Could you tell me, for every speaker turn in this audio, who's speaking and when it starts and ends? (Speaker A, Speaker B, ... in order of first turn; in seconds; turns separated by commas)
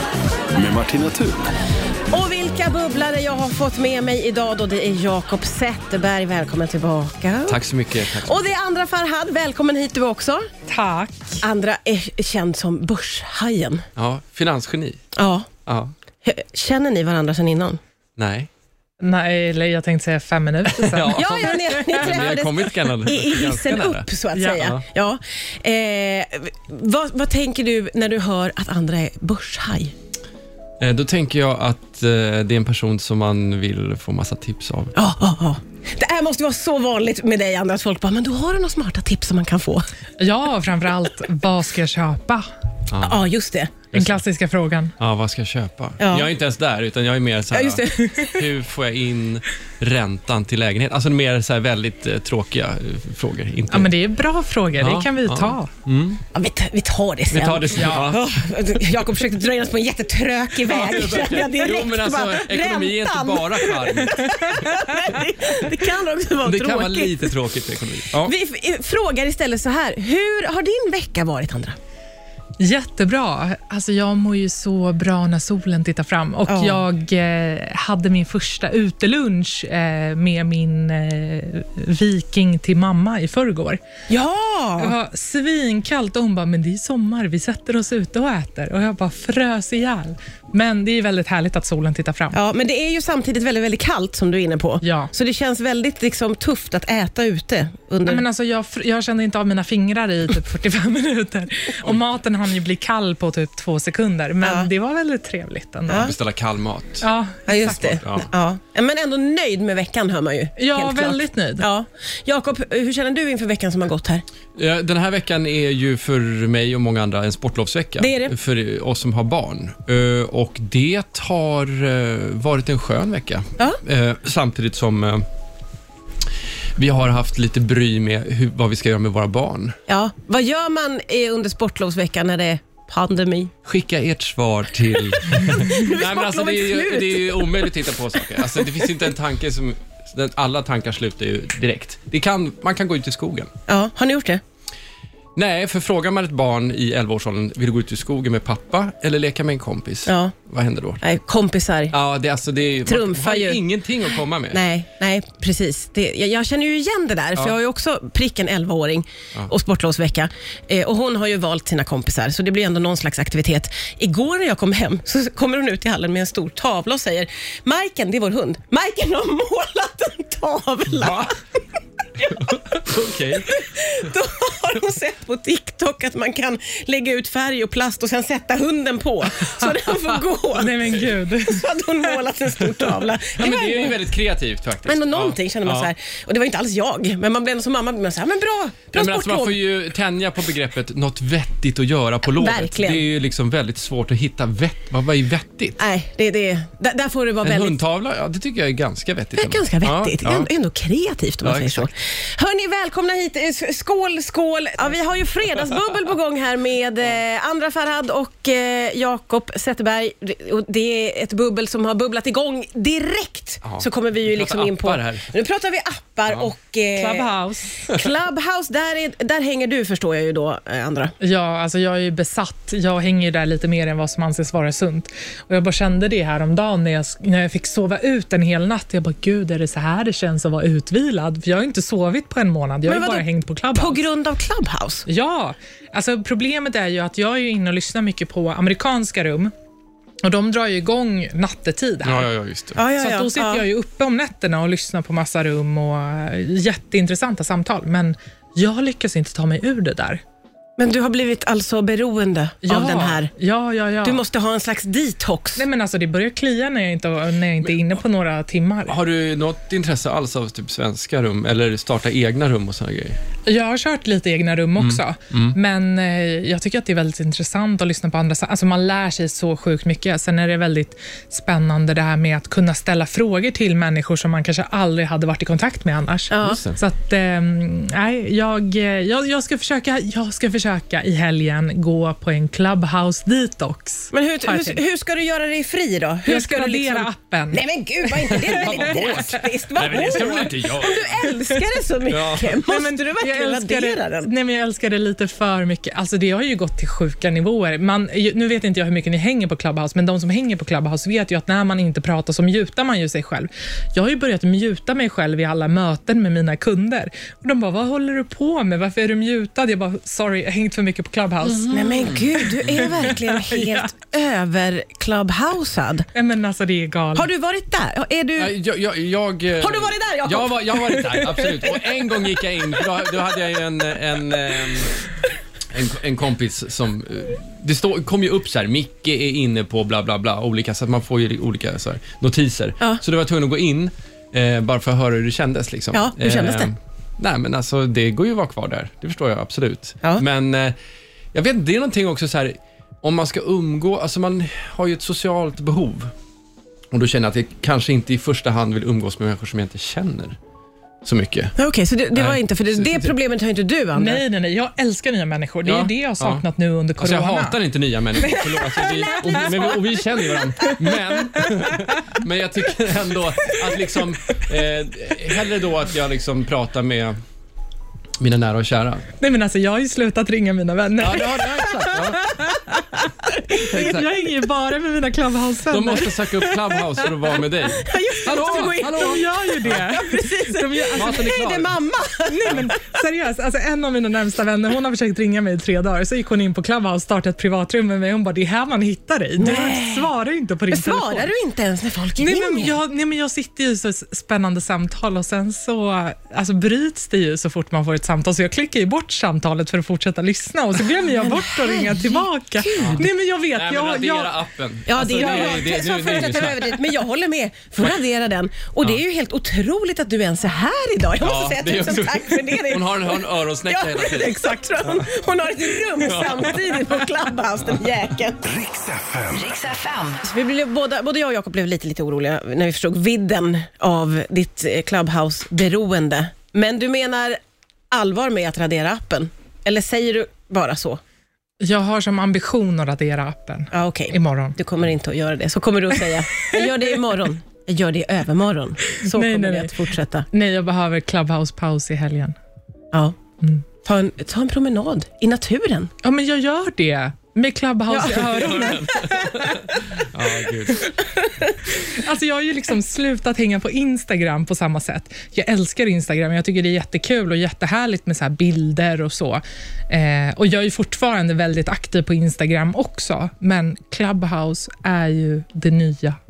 Speaker A: 0.5-1.5, Speaker B: 2.1-10.5, Speaker C: 7.5-8.4, Speaker D: 10.7-11.4, Speaker B: 11.4-13.8, Speaker C: 13.9-15.0, Speaker B: 15.2-15.5, Speaker C: 15.7-15.9, Speaker B: 16.2-17.8, Speaker C: 18.2-18.5, Speaker D: 19.0-22.2, Speaker C: 20.7-24.1, Speaker B: 21.1-29.9, Speaker D: 24.3-24.7, Speaker C: 30.8-34.9, Speaker B: 34.9-39.9, Speaker D: 40.2-42.5, Speaker C: 42.9-43.2, Speaker B: 43.0-43.7, Speaker C: 43.9-44.2, Speaker D: 43.9-44.9, Speaker C: 45.0-53.9, Speaker B: 46.0-46.3, Speaker B: 47.5-48.4, Speaker D: 53.7-55.7, Speaker C: 54.8-56.2, Speaker B: 56.3-67.3, Speaker C: 57.3-58.3, Speaker D: 57.8-58.0, Speaker C: 60.6-65.2, Speaker C: 66.4-68.3, Speaker B: 68.1-71.8, Speaker D: 72.6-83.8, Speaker B: 76.5-76.8, Speaker B: 84.1-84.9, Speaker D: 84.8-92.4, Speaker B: 92.3-98.2, Speaker D: 94.8-95.1, Speaker D: 98.0-106.1, Speaker B: 104.4-104.7, Speaker B: 105.9-106.1, Speaker C: 105.9-108.3, Speaker D: 107.0-107.8, Speaker B: 107.5-114.2, Speaker D: 110.5-111.7, Speaker C: 114.5-125.2, Speaker B: 118.0-118.3, Speaker C: 126.8-129.8, Speaker B: 129.9-133.5, Speaker C: 133.6-143.5, Speaker B: 135.7-138.0, Speaker B: 143.7-144.4, Speaker C: 145.3-151.0, Speaker B: 150.1-150.3, Speaker B: 151.0-151.9, Speaker C: 151.9-154.6, Speaker B: 152.8-153.6, Speaker B: 154.5-171.3, Speaker C: 170.9-171.3, Speaker B: 172.2-184.0, Speaker C: 172.3-173.5, Speaker D: 180.5-181.7, Speaker C: 183.3-185.9, Speaker B: 184.8-189.6, Speaker C: 188.9-195.8, Speaker B: 192.2-193.0, Speaker B: 195.8-197.8, Speaker C: 197.4-200.5, Speaker B: 199.3-217.3, Speaker C: 201.4-201.9, Speaker C: 213.6-215.3, Speaker D: 216.9-217.9, Speaker B: 217.8-221.1, Speaker D: 221.2-234.0, Speaker B: 232.8-235.1, Speaker D: 235.1-239.5, Speaker D: 240.2-242.3, Speaker C: 242.0-242.8, Speaker B: 242.8-243.6, Speaker D: 242.9-250.2, Speaker B: 250.8-253.3, Speaker D: 252.6-254.2, Speaker B: 254.0-255.6, Speaker D: 255.6-259.0, Speaker C: 257.6-258.0, Speaker C: 258.9-263.2, Speaker D: 263.4-284.8, Speaker C: 264.8-265.6, Speaker B: 276.3-276.6, Speaker C: 276.4-276.8, Speaker B: 284.1-294.3, Speaker D: 286.2-287.6, Speaker C: 288.3-291.4, Speaker D: 288.5-288.8, Speaker C: 292.1-292.5, Speaker D: 292.5-313.9, Speaker B: 311.7-316.1, Speaker C: 311.9-313.1, Speaker D: 316.1-317.3, Speaker B: 317.1-318.5, Speaker C: 318.4-325.1, Speaker B: 319.6-321.3, Speaker C: 325.7-340.7, Speaker B: 335.9-336.7, Speaker C: 341.3-346.1, Speaker C: 346.9-350.4, Speaker C: 351.0-351.6, Speaker B: 351.6-354.2, Speaker C: 352.1-353.1, Speaker D: 353.9-357.6, Speaker C: 355.6-356.4, Speaker C: 357.0-367.2, Speaker B: 358.3-359.8, Speaker C: 368.2-369.1, Speaker D: 369.2-373.0, Speaker C: 371.0-372.2, Speaker D: 373.6-377.1, Speaker C: 373.7-374.0, Speaker C: 375.7-379.8, Speaker B: 377.7-382.9, Speaker D: 378.4-381.3, Speaker C: 380.9-381.8, Speaker D: 382.3-391.3, Speaker B: 389.4-390.1, Speaker B: 390.7-392.8, Speaker D: 392.1-404.3, Speaker B: 400.9-403.1, Speaker C: 402.8-406.9, Speaker B: 404.9-418.4, Speaker D: 405.1-405.6, Speaker C: 411.2-415.1, Speaker C: 416.0-417.1, Speaker A: 418.4-419.5, Speaker B: 419.6-427.4, Speaker B: 427.9-431.0, Speaker D: 431.6-434.6, Speaker B: 433.7-440.2, Speaker D: 439.0-442.3, Speaker B: 442.9-443.2, Speaker B: 443.8-445.9, Speaker D: 446.0-449.9, Speaker B: 447.9-448.8, Speaker C: 448.1-450.9, Speaker D: 451.7-466.2